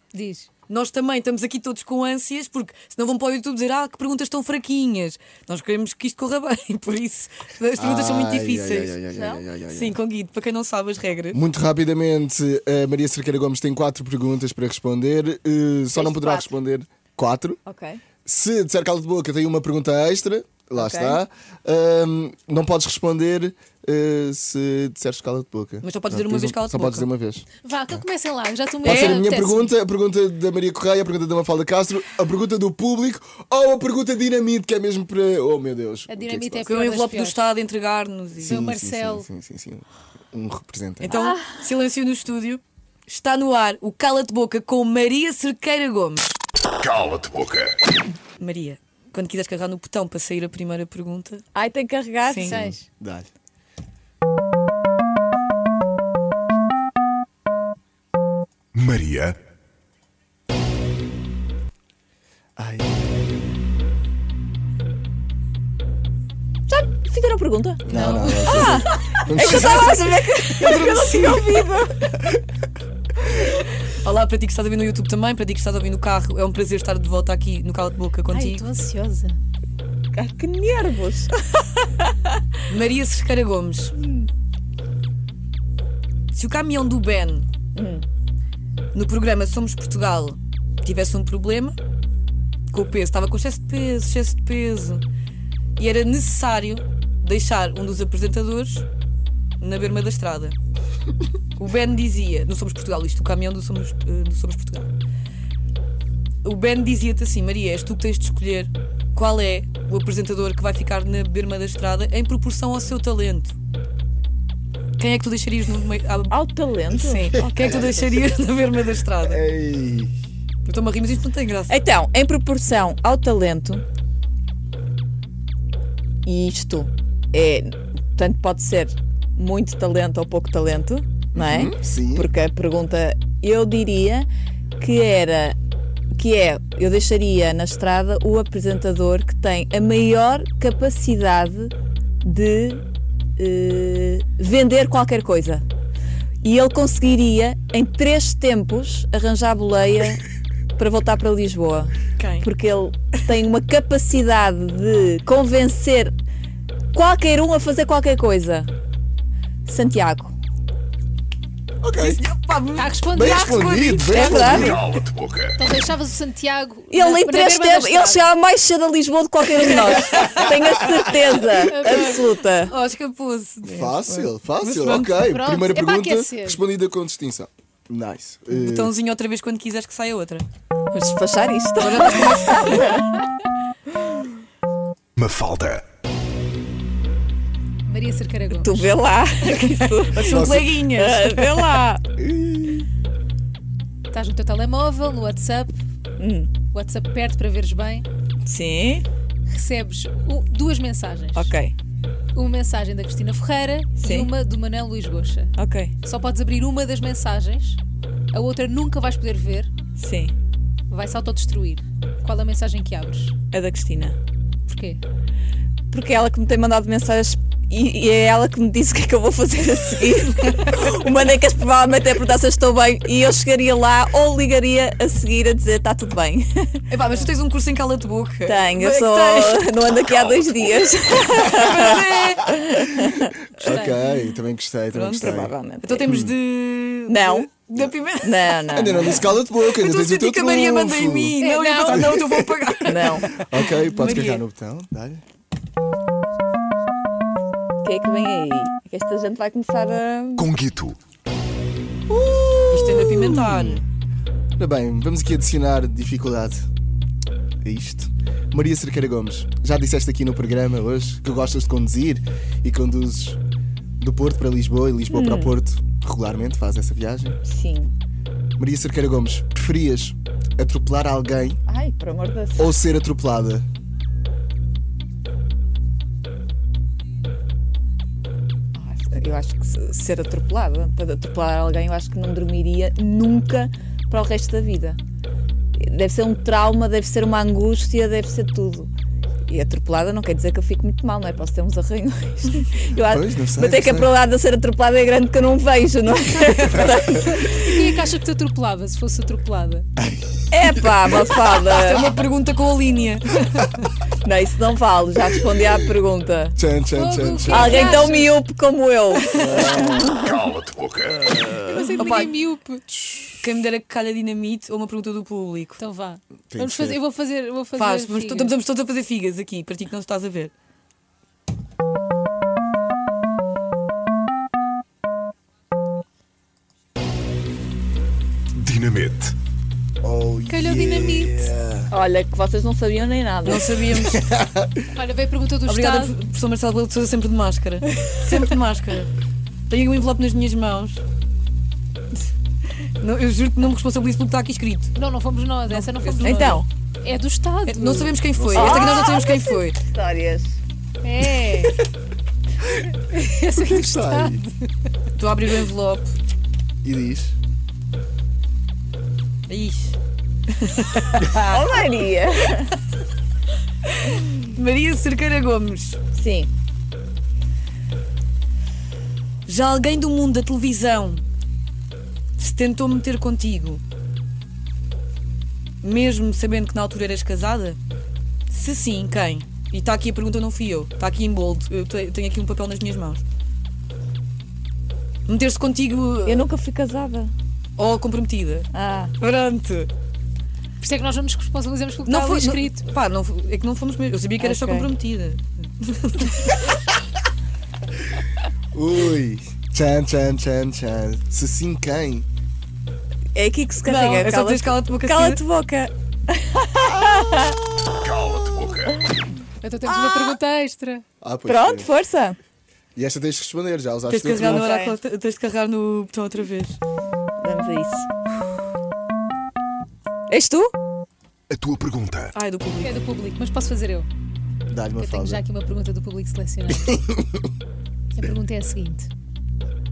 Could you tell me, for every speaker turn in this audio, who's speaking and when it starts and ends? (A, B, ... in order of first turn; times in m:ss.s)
0:00.1-0:00.5 A
0:00.7-0:09.0 B
0:07.8-0:10.0 C
0:09.1-0:09.4 D
0:09.7-0:11.4 B
0:11.3-0:17.6 C
0:16.0-0:16.5 D
0:17.7-0:18.0 D
0:18.2-0:27.5 C
0:20.8-0:21.2 D
0:25.8-0:27.1 B
0:27.6-0:29.7 A
0:28.8-0:36.7 C
0:28.8-0:29.2 B
0:36.1-0:37.4 A
0:36.6-0:38.6 B
0:38.4-0:39.3 A
0:38.4-0:41.2 C
0:41.0-0:46.4 B
0:41.1-0:41.6 D
0:46.8-0:47.7 E
0:48.4-0:51.4 B
0:51.6-0:52.7 D
0:52.3-0:52.6 B
0:52.4-0:52.9 A
0:53.0-0:53.3 C
0:58.8-0:59.4 E
1:02.6-1:03.6 C
1:06.7-1:12.1 D
1:07.8-1:10.0 C
1:07.9-1:08.7 A
1:08.0-1:08.3 B
1:09.4-1:11.7 B
1:13.9-1:18.7 B
1:18.3-1:19.4 A
1:20.1-1:22.4 D
1:22.7-1:24.0 B
1:26.3-1:27.5 B
1:27.8-1:28.1 D
1:28.9-1:31.8 B
1:32.7-1:35.0 B
1:35.8-1:38.9 B
1:39.6-1:40.6 B
1:41.6-1:44.9 B
1:46.4-1:53.6 B
1:55.0-1:56.4 B
1:56.3-1:58.2 D
1:56.9-1:59.4 B
1:57.4-1:57.9 C
1:59.2-2:00.1 C
2:00.6-2:01.8 B
2:01.7-2:03.8 D
2:06.2-2:14.3 D
2:11.3-2:12.3 C
2:14.8-2:15.6 D
2:16.2-2:22.8 D
2:23.4-2:25.6 D
2:26.4-2:30.2 D
2:30.8-2:36.1 D
2:32.2-2:32.5 B
2:36.9-2:38.7 D
2:39.7-2:40.3 D
2:41.8-2:42.2 C
2:42.0-2:44.7 B
2:42.8-2:44.8 A
2:43.1-2:44.9 C
2:44.1-2:44.8 D
2:44.7-2:45.6 E
2:45.6-2:48.3 A
2:46.9-2:52.7 D
2:49.6-2:50.6 B
2:51.6-2:52.2 A
2:51.9-2:55.3 B
2:53.6-2:58.9 C
2:55.2-2:56.6 A
2:58.5-3:00.5 B
3:00.9-3:03.3 D
3:01.8-3:03.0 B
3:03.9-3:04.3 D
3:05.2-3:05.8 E
3:07.9-3:08.9 A
3:08.5-3:12.0 D
3:09.4-3:11.8 B
3:10.2-3:10.8 C
3:12.2-3:12.9 C
3:14.1-3:15.8 A
3:16.2-3:16.6 D
3:16.6-3:18.1 A
3:18.5-3:19.1 D
3:19.5-3:21.6 A
3:21.4-3:21.8 D
3:22.4-3:27.8 A
3:24.0-3:24.3 D
3:25.6-3:25.9 D
3:28.3-3:29.7 A
3:30.0-3:30.4 D
3:30.9-3:33.4 A
3:33.5-3:34.2 D
3:34.7-3:35.0 A
3:35.9-3:46.9 D
3:46.9-3:49.7 B
3:48.5-3:53.5 D
3:51.4-3:52.6 B
3:53.6-3:55.5 C
3:53.6-3:54.0 A
3:54.9-4:04.4 B
3:55.2-3:56.1 D
3:56.1-3:56.4 C
3:57.1-3:57.5 D
3:58.2-3:59.3 D
3:58.7-4:01.4 C
4:01.4-4:02.4 A
4:01.9-4:02.5 C
4:02.8-4:03.3 D
4:03.3-4:05.2 C
4:07.8-4:10.5 D
4:10.4-4:11.0 E
4:12.1-4:13.8 C
4:12.7-4:13.8 B
4:14.6-4:16.7 C
4:17.6-4:23.4 C
4:24.0-4:27.4 C
4:25.1-4:25.6 D
4:27.4-4:27.9 D
4:28.6-4:31.6 C
4:31.7-4:32.7 D
4:32.6-4:33.7 C
4:38.8-4:45.0 D
4:45.8-4:48.9 D
4:49.5-4:57.8 D
4:53.1-4:54.1 C
4:57.0-4:59.9 A
5:00.0-5:00.4 C
5:00.5-5:02.1 D
5:01.7-5:03.9 B
5:04.2-5:06.6 D
5:06.6-5:07.8 C
5:06.9-5:08.4 A
5:07.5-5:10.5 D
5:09.3-5:10.2 C
5:10.2-5:11.2 E
5:11.0-5:12.1 C
5:11.7-5:12.9 A
5:12.0-5:12.4 B
5:12.9-5:13.4 C
5:13.4-5:15.8 B
5:15.8-5:18.5 A
5:16.5-5:17.0 C
5:17.8-5:20.5 B
5:28.6-5:29.3 E
5:30.0-5:31.9 C
5:30.5-5:31.5 A
5:31.9-5:33.6 D
5:33.4-5:34.2 B
5:33.9-5:34.8 C
5:34.9-5:36.2 A
5:35.7-5:39.1 B
5:39.7-5:41.0 B
5:43.0-5:44.9 B
5:45.0-5:48.2 A
5:45.7-5:46.6 B
5:46.2-5:46.7 D
5:47.7-5:49.8 B
5:48.3-5:49.1 C
5:48.5-5:50.6 D
5:51.0-5:51.8 A
5:53.0-5:54.6 A
5:53.5-5:54.4 C
5:55.2-5:56.1 B
5:56.8-5:57.4 C
5:59.5-6:00.0 B
6:00.5-6:01.7 B
6:01.4-6:02.7 D
6:03.9-6:06.0 B
6:06.1-6:06.5 D
6:09.5-6:11.2 B
6:12.4-6:13.8 B
6:15.8-6:17.8 B
6:18.5-6:23.2 B
6:25.3-6:26.5 B
6:26.2-6:27.3 D
6:27.8-6:29.9 B
6:28.7-6:29.1 D
6:30.8-6:32.9 A
6:32.1-6:36.8 B
6:34.4-6:34.9 D
6:38.7-6:42.3 C
6:43.4-6:47.6 D
6:43.8-6:45.4 B
6:47.1-6:48.9 C
6:48.2-6:48.7 E
6:49.6-6:51.0 A
6:49.9-6:50.4 D
6:51.2-6:51.9 C
6:51.5-6:52.4 D
6:53.0-6:54.6 C
6:54.1-6:56.8 B
6:54.3-6:55.0 D
6:57.4-6:58.1 D
7:00.3-7:00.7 D
7:01.5-7:02.3 E
7:02.3-7:03.0 B
7:02.8-7:04.1 A
7:04.7-7:05.4 C
7:05.0-7:07.0 A
7:06.8-7:07.5 C
7:08.1-7:09.1 A